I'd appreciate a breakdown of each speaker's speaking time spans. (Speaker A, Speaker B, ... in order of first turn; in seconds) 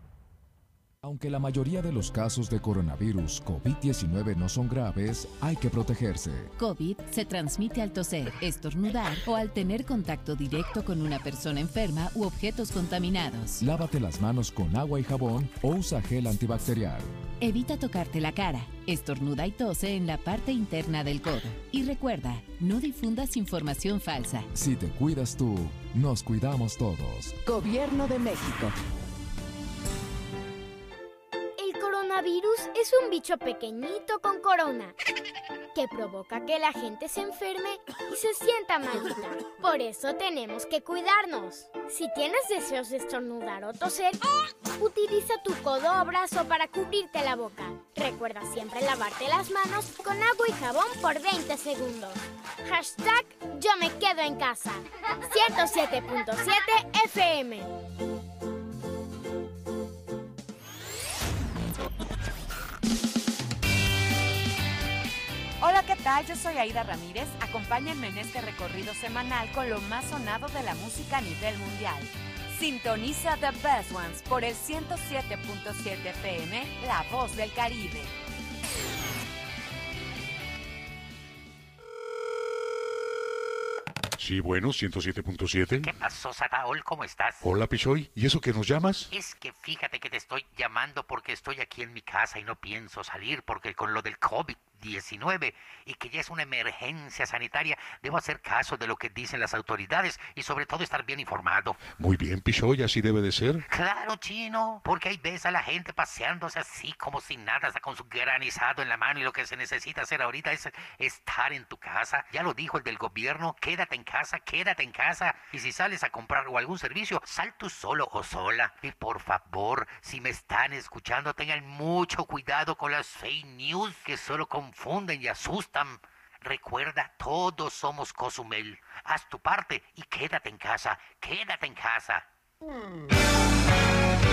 Speaker A: 1.0-6.5, 13.6-17.1, 24.5-27.4
Speaker B: 6.6-13.7, 17.4-24.5
Speaker C: 27.8-28.6, 65.6-78.1
Speaker D: 31.6-35.0, 35.8-57.7
Speaker E: 84.2-85.9, 87.4-89.1, 102.0-103.6
Speaker F: 85.8-87.4, 89.1-101.8, 103.7-132.2